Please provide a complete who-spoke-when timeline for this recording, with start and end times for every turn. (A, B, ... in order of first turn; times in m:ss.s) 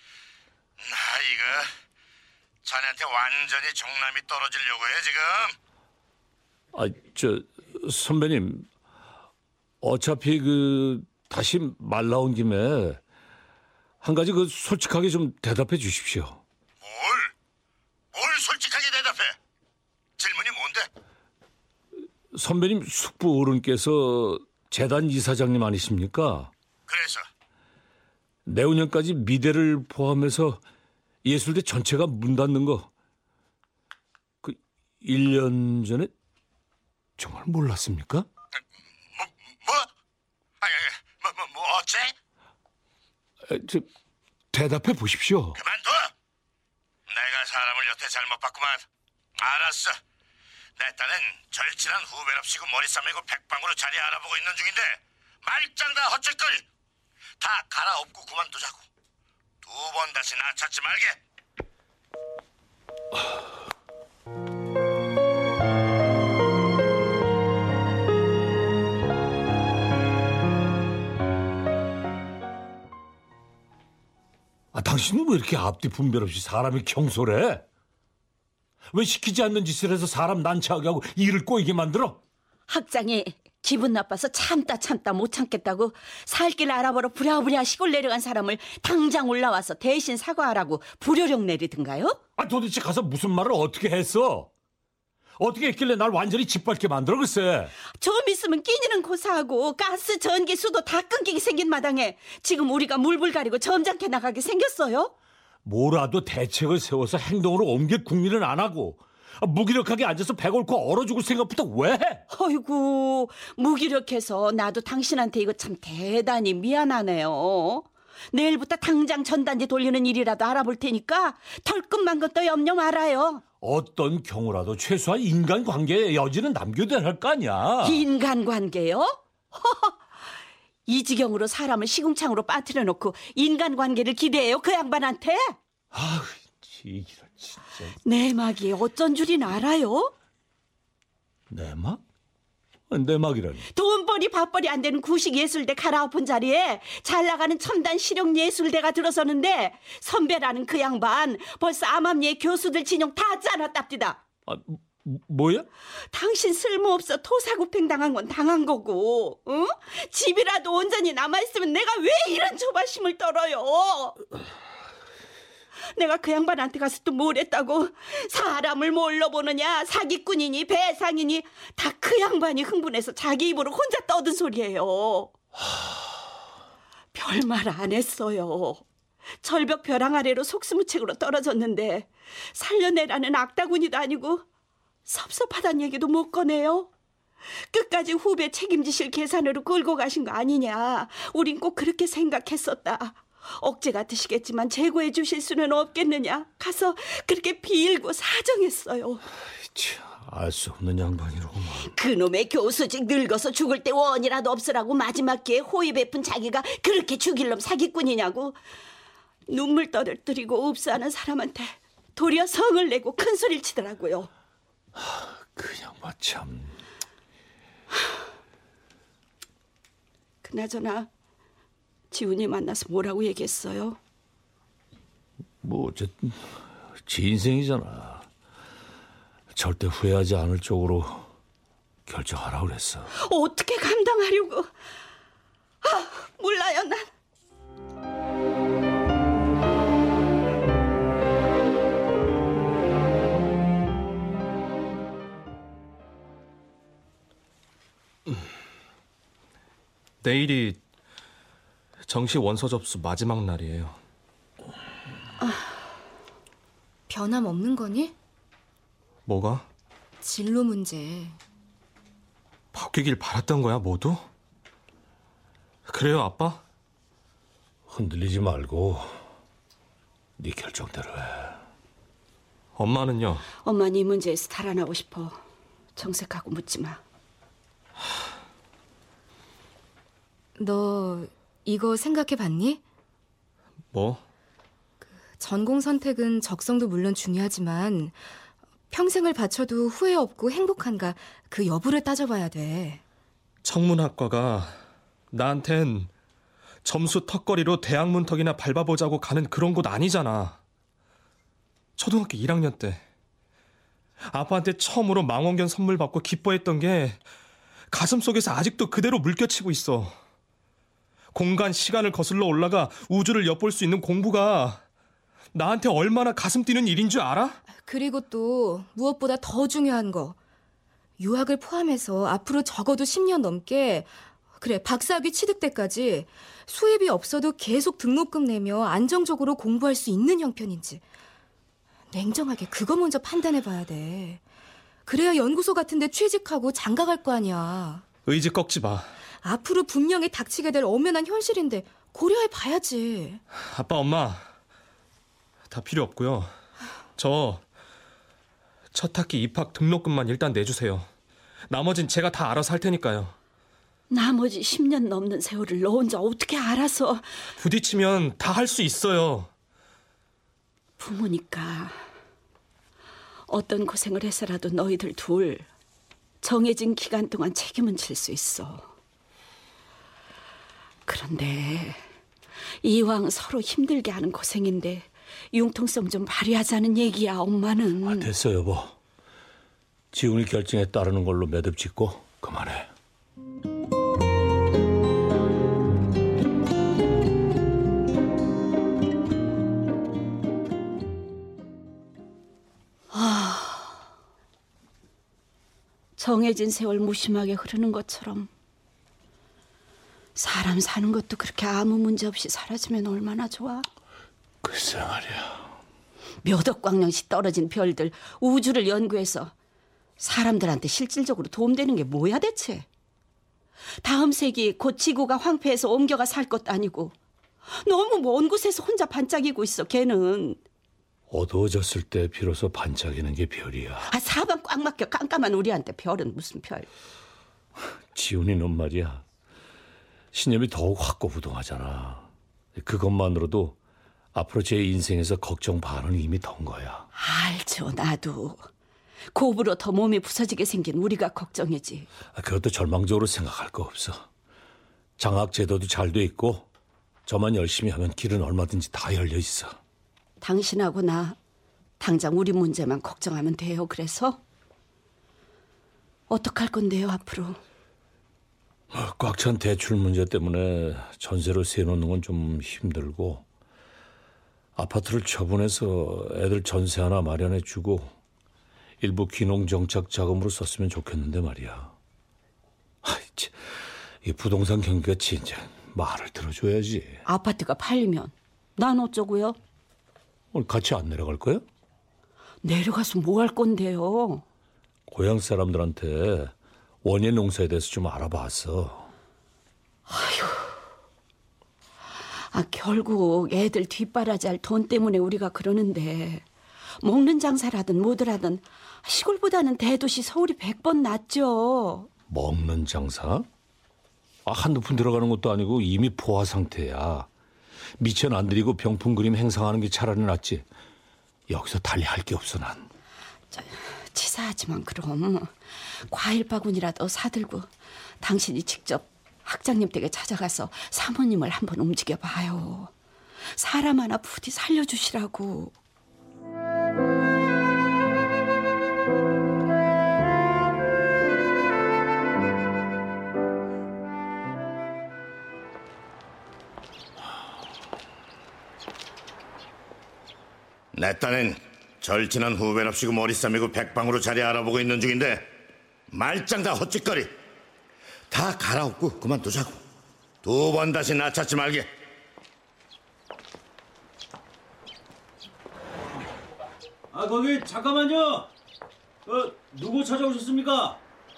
0:00.8-0:01.7 A
0:02.6-0:05.6 A
0:06.7-0:08.7 B
0:09.8-0:13.0 B
0:14.0-0:16.4 B
0:16.8-0:17.3 A
0:18.1-0:19.4 A
0:20.2-0:20.9 A
0:22.3-0:26.5 B
0:26.9-0:27.2 A
0:28.5-0:30.6 B
0:31.2-0:32.9 B
0:34.4-0:36.1 B
0:37.2-0:38.3 B
0:39.1-0:39.9 A
0:40.6-0:42.1 A
0:43.4-0:43.9 B
0:44.5-0:45.6 B
0:45.6-0:46.1 A
0:47.1-0:48.8 A
0:49.4-0:50.0 A
0:50.8-0:56.7 A
0:57.4-0:58.9 A
0:59.6-1:01.2 A
1:14.7-1:17.6 B
1:18.9-1:22.2 B
1:22.7-1:32.2 C
1:32.4-1:34.5 B
1:35.4-1:37.7 B
1:38.0-1:45.1 C
1:45.6-1:52.2 B
1:52.3-2:03.4 C
2:03.6-2:08.0 B
2:07.8-2:10.0 C
2:10.9-2:15.6 C
2:15.9-2:17.9 B
2:18.0-2:20.1 C
2:21.5-2:22.0 B
2:22.9-2:23.7 B
2:23.7-2:34.2 C
2:34.5-2:35.7 B
2:36.1-2:44.2 C
2:45.9-2:55.3 C
2:57.1-2:58.8 C
2:59.4-3:04.4 C
3:05.1-3:06.9 C
3:07.7-3:19.2 C
3:19.6-3:21.9 B
3:21.9-3:28.6 C
3:29.5-3:34.3 C
3:35.0-3:36.8 B
3:40.4-3:41.1 C
3:42.1-3:44.0 C
3:45.6-3:48.3 B
3:49.5-3:51.3 B
3:52.1-3:53.1 B
3:53.2-3:54.7 C
3:55.8-3:57.1 C
4:10.2-4:10.8 D
4:12.1-4:14.0 D
4:15.4-4:15.7 C
4:17.1-4:18.1 E
4:19.3-4:19.7 D
4:20.2-4:21.4 E
4:22.7-4:24.2 D
4:25.9-4:26.6 D
4:27.9-4:29.2 B
4:30.4-4:31.6 B
4:32.8-4:33.4 D
4:33.6-4:35.4 C
4:36.0-4:37.0 C
4:40.6-4:42.8 E
4:43.9-4:44.2 D
4:45.4-4:48.2 E
4:48.9-4:53.0 E
4:53.6-4:54.8 D
4:55.3-4:56.1 D
4:56.8-5:00.6 D
5:02.0-5:03.0 D
5:04.2-5:07.2 D
5:07.9-5:10.2 D
5:11.3-5:14.8 D
5:15.5-5:17.6 D
5:17.7-5:20.4 E
5:21.2-5:31.0 E
5:32.1-5:34.4 E
5:35.1-5:38.0 E
5:38.3-5:39.1 D
5:39.4-5:43.4 E
5:43.6-5:44.5 D
5:45.7-5:46.5 D
5:47.2-5:47.6 D
5:48.9-5:51.1 D
5:51.7-5:53.3 D
5:54.1-5:57.4 C
5:57.6-5:59.5 D
6:01.0-6:02.0 C
6:03.5-6:05.7 C
6:06.4-6:08.9 C
6:11.1-6:12.0 C
6:12.8-6:18.3 C
6:18.0-6:19.0 B
6:20.1-6:22.9 B
6:33.1-6:34.0 C
6:36.2-6:38.5 C
6:40.4-6:43.9 C
6:44.6-6:45.7 B
6:46.4-6:49.5 C
6:50.2-6:52.9 C
6:54.0-6:57.1 C
6:57.8-7:00.6 C
7:01.3-7:04.1 B
7:04.1-7:06.9 C
7:08.1-7:09.2 B
7:10.3-7:13.8 B
7:14.3-7:17.1 B
7:17.2-7:18.6 C
7:19.3-7:22.1 C
7:22.3-7:24.3 B
7:25.2-7:26.7 B
7:27.3-7:29.8 B
7:30.4-7:31.4 C
7:32.0-7:34.4 C
7:36.3-7:37.6 C
7:38.9-7:43.4 B
7:44.8-7:48.2 B
7:49.0-7:52.0 B
7:53.0-7:57.2 B
7:57.2-7:59.6 C
8:00.5-8:01.6 B
8:02.6-8:04.4 C
8:05.1-8:09.1 B
8:10.1-8:10.8 C
8:12.5-8:16.4 C
8:17.0-8:22.1 C
8:22.3-8:23.5 B
8:24.4-8:27.3 B
8:28.0-8:30.7 B
8:31.5-8:32.9 B
8:33.5-8:35.5 C
8:36.1-8:37.7 C
8:38.2-8:42.9 C
8:43.5-8:45.8 C
9:00.9-9:05.5 A
9:06.1-9:07.4 A
9:08.3-9:09.8 A
9:10.4-9:11.9 A
9:17.1-9:18.5 F
9:19.3-9:21.0 F